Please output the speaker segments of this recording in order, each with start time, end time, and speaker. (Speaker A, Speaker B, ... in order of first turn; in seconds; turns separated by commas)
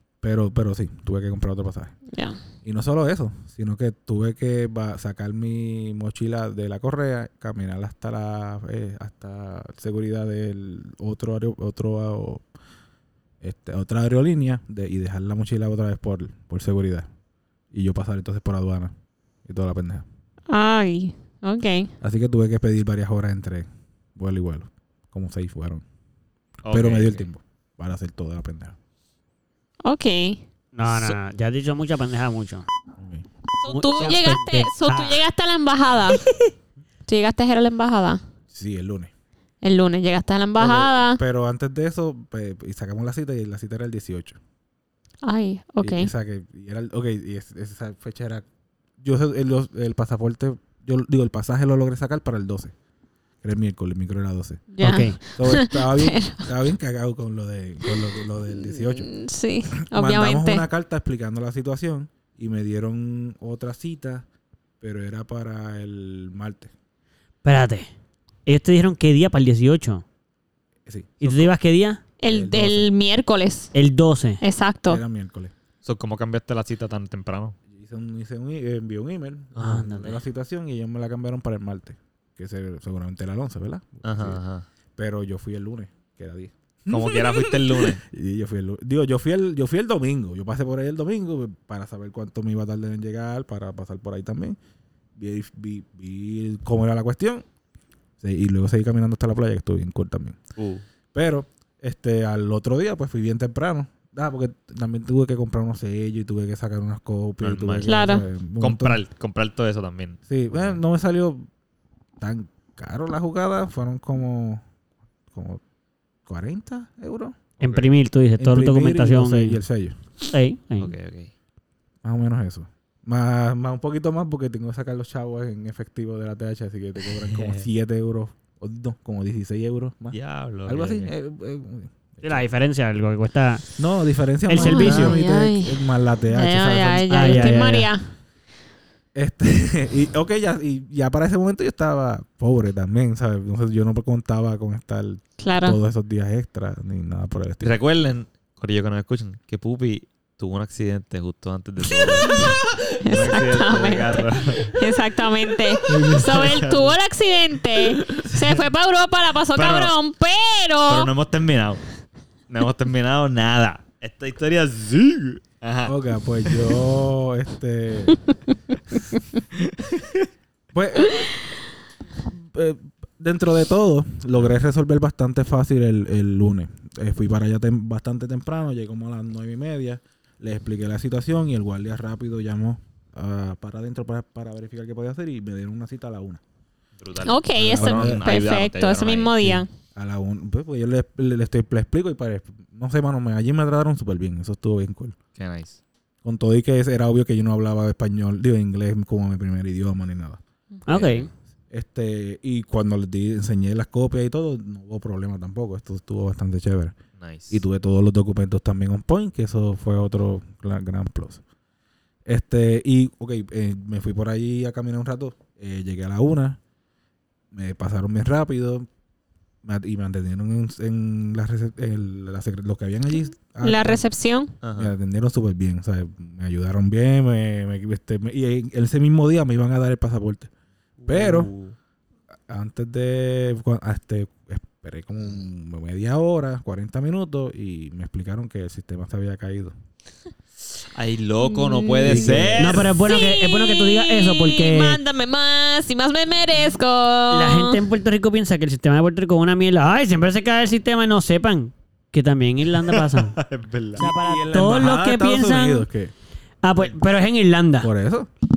Speaker A: 0.2-1.9, Speaker B: 2.1-2.4, Speaker A: 2.6-12.4, Speaker A: 13.4-17.1, Speaker A: 17.7-18.9, Speaker A: 19.4-20.1, Speaker B: 20.5-21.9, Speaker A: 22.0-25.8, Speaker C: 26.6-27.2, Speaker A: 26.7-28.8, Speaker B: 29.8-30.4, Speaker D: 30.7-32.6, Speaker C: 30.9-31.1, Speaker A: 33.0-33.2, Speaker B: 33.6-36.2, Speaker D: 33.6-35.2, Speaker B: 37.1-38.2, Speaker A: 38.5-39.1, Speaker B: 39.6-41.2, Speaker A: 40.6-44.4, Speaker B: 45.2-46.1, Speaker A: 45.8-48.4, Speaker A: 49.0-52.7, Speaker A: 53.4-59.1, Speaker B: 54.7-56.5, Speaker D: 54.8-55.2, Speaker B: 58.6-60.6, Speaker A: 59.8-64.2, Speaker A: 64.8-66.7, Speaker D: 67.4-67.9, Speaker D: 68.5-70.0, Speaker A: 70.8-71.5, Speaker D: 71.2-72.0, Speaker B: 72.2-73.7, Speaker A: 72.2-72.9, Speaker D: 73.7-74.4, Speaker B: 74.4-75.0, Speaker A: 74.9-75.5, Speaker C: 75.8-77.5, Speaker A: 77.7-84.4, Speaker D: 79.5-80.2, Speaker C: 84.0-84.7, Speaker A: 85.0-94.6, Speaker C: 86.9-88.0, Speaker A: 95.2-97.5, Speaker A: 98.2-100.4, Speaker C: 100.6-100.8, Speaker A: 101.1-109.0, Speaker C: 107.4-108.0, Speaker B: 107.8-108.2, Speaker C: 108.6-110.8, Speaker A: 110.3-111.5, Speaker A: 112.2-114.6, Speaker A: 115.3-115.6, Speaker A: 116.2-117.5, Speaker D: 117.6-119.6, Speaker C: 117.6-117.9, Speaker A: 118.4-120.0, Speaker D: 120.3-120.9, Speaker C: 120.8-121.3, Speaker A: 122.0-132.4, Speaker C: 127.3-127.6, Speaker C: 130.1-131.1, Speaker D: 132.2-133.6, Speaker A: 133.8-137.8, Speaker D: 134.5-135.2, Speaker B: 134.6-138.1, Speaker D: 137.1-137.9, Speaker A: 139.1-147.7, Speaker B: 145.4-145.8, Speaker C: 147.6-154.8, Speaker B: 152.0-161.1, Speaker C: 155.5-156.9, Speaker A: 155.9-156.3, Speaker C: 158.1-158.7, Speaker C: 159.5-159.9, Speaker C: 160.9-161.8, Speaker C: 162.5-166.8, Speaker A: 165.8-168.2, Speaker C: 169.5-170.3, Speaker A: 170.7-171.3, Speaker A: 172.2-186.4, Speaker C: 187.0-189.6, Speaker B: 187.2-189.7, Speaker A: 187.6-188.4, Speaker A: 189.5-195.2, Speaker C: 195.3-195.8, Speaker A: 196.2-200.4, Speaker D: 200.9-201.3, Speaker A: 201.7-206.9, Speaker C: 207.2-207.6, Speaker A: 207.5-211.4, Speaker A: 212.2-216.6, Speaker A: 217.5-218.9, Speaker A: 219.6-224.0, Speaker B: 223.6-224.5, Speaker C: 224.6-224.9, Speaker A: 224.7-230.5, Speaker C: 231.0-231.7, Speaker A: 231.1-231.5, Speaker A: 232.5-239.7, Speaker C: 240.9-243.0, Speaker B: 241.4-242.5, Speaker A: 242.0-242.9, Speaker D: 242.6-245.0, Speaker B: 243.0-247.8, Speaker D: 247.3-253.4, Speaker C: 252.7-254.0, Speaker D: 254.0-255.8, Speaker A: 254.0-256.1, Speaker D: 256.6-257.9, Speaker A: 257.8-258.3